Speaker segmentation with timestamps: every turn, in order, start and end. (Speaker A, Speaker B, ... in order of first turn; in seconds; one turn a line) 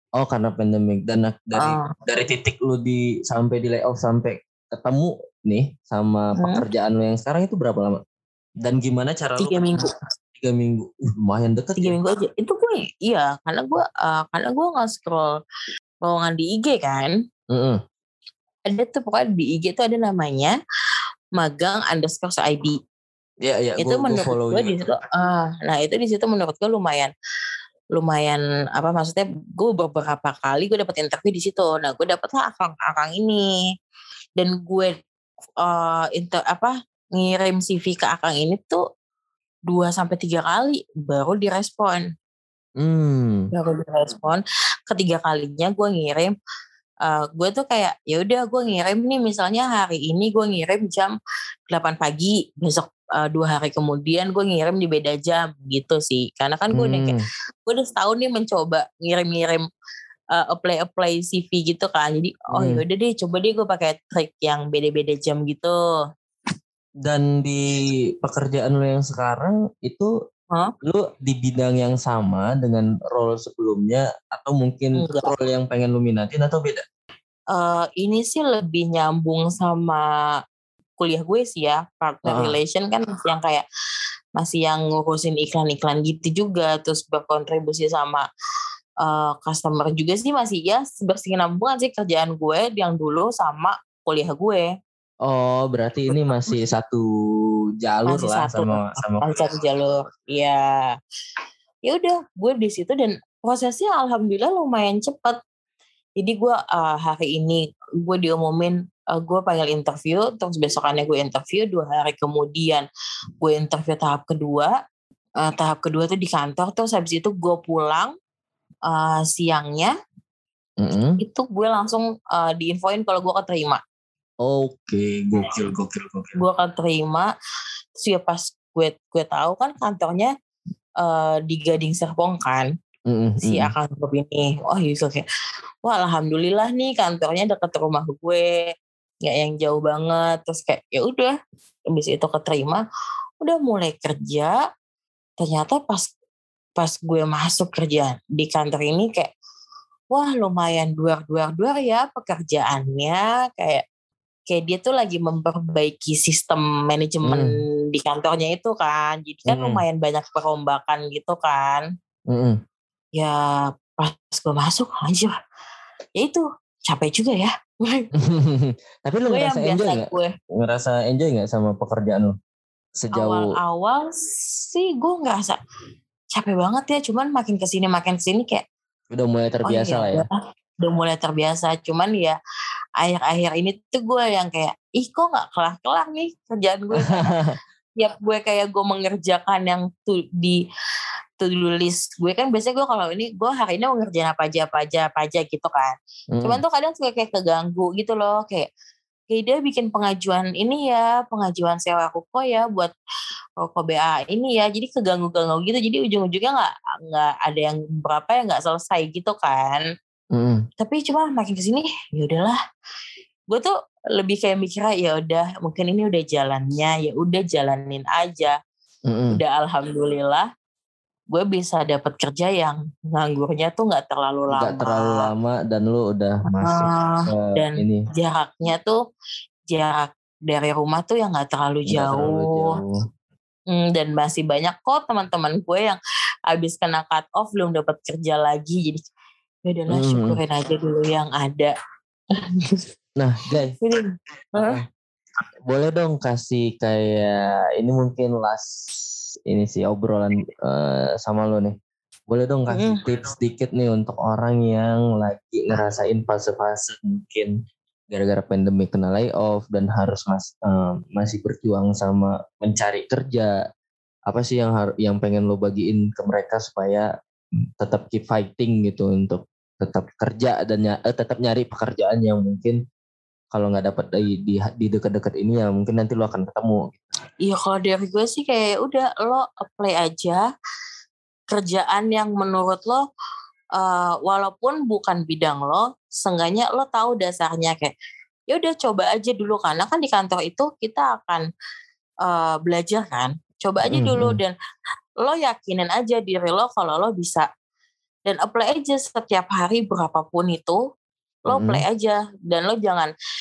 Speaker A: 0.2-8.0
Speaker B: 1.6-1.9
Speaker B: 6.3-6.6
Speaker A: 8.6-9.8
Speaker B: 9.4-9.9
Speaker A: 10.4-11.9
Speaker B: 11.8-15.3
Speaker B: 16.0-17.1
Speaker A: 17.5-17.8
Speaker B: 18.6-20.6
Speaker B: 21.4-22.8
Speaker A: 23.4-24.8
Speaker B: 23.8-27.1
Speaker B: 27.9-33.5
Speaker B: 34.4-35.0
Speaker B: 35.6-38.8
Speaker B: 39.7-42.1
Speaker A: 42.8-43.5
Speaker B: 43.5-46.3
Speaker B: 47.0-51.1
Speaker B: 51.7-57.1
Speaker A: 56.7-57.2
Speaker B: 57.7-59.6
Speaker B: 60.3-65.8
Speaker A: 62.5-62.8
Speaker A: 67.0-70.1
Speaker A: 70.8-76.8
Speaker B: 75.0-75.3
Speaker B: 77.5-80.0
Speaker B: 81.0-83.6
Speaker A: 82.2-82.6
Speaker B: 84.4-88.2
Speaker B: 89.0-94.7
Speaker A: 95.2-97.1
Speaker B: 96.1-96.5
Speaker A: 97.8-99.3
Speaker B: 98.1-100.9
Speaker B: 101.9-105.4
Speaker B: 106.2-112.8
Speaker B: 113.4-114.7
Speaker B: 115.4-118.1
Speaker B: 118.9-119.9
Speaker A: 120.8-121.2
Speaker B: 121.2-123.8
Speaker A: 124.4-126.4
Speaker B: 126.3-127.3
Speaker B: 128.0-130.3
Speaker B: 131.0-132.7
Speaker A: 133.1-133.7
Speaker B: 133.4-135.2
Speaker B: 135.8-138.5
Speaker B: 139.2-141.3
Speaker B: 141.9-142.8
Speaker B: 143.4-144.5
Speaker B: 145.4-146.1
Speaker B: 146.8-149.3
Speaker B: 150.1-153.8
Speaker B: 154.5-161.8
Speaker A: 157.2-157.5
Speaker A: 159.5-159.8
Speaker A: 162.3-162.6
Speaker B: 163.9-165.3
Speaker B: 166.2-168.1
Speaker A: 168.2-172.3
Speaker B: 169.3-170.3
Speaker A: 172.9-173.5
Speaker B: 173.1-175.6
Speaker B: 176.3-178.6
Speaker A: 179.1-180.2
Speaker B: 179.7-180.3
Speaker B: 180.8-182.4
Speaker B: 183.0-187.3
Speaker A: 187.1-187.5
Speaker B: 188.0-190.6
Speaker B: 191.4-198.7
Speaker A: 196.3-196.6
Speaker B: 199.3-202.9
Speaker B: 203.6-209.8
Speaker A: 210.3-210.6
Speaker B: 210.8-212.6
Speaker B: 213.5-218.5
Speaker A: 219.1-219.4
Speaker B: 219.3-220.4
Speaker B: 221.3-225.3
Speaker A: 224.5-228.0
Speaker B: 226.5-229.0
Speaker B: 229.7-232.7
Speaker A: 231.9-233.0
Speaker B: 233.7-236.0
Speaker B: 236.5-239.1
Speaker B: 239.7-241.7
Speaker A: 239.9-240.4
Speaker B: 242.3-242.8
Speaker A: 243.2-243.7
Speaker B: 243.8-244.8
Speaker A: 244.6-244.8
Speaker A: 245.7-248.7
Speaker A: 249.5-251.7
Speaker A: 252.3-257.5
Speaker B: 252.7-253.0
Speaker A: 258.1-263.5
Speaker A: 264.3-267.1
Speaker A: 267.8-272.8
Speaker A: 273.5-277.0
Speaker B: 277.4-280.4
Speaker B: 281.5-283.1
Speaker B: 283.8-287.9
Speaker B: 288.5-291.5
Speaker B: 292.2-294.5
Speaker A: 293.9-294.4
Speaker B: 295.2-297.5
Speaker B: 298.2-300.8
Speaker B: 301.5-303.1
Speaker A: 301.5-301.8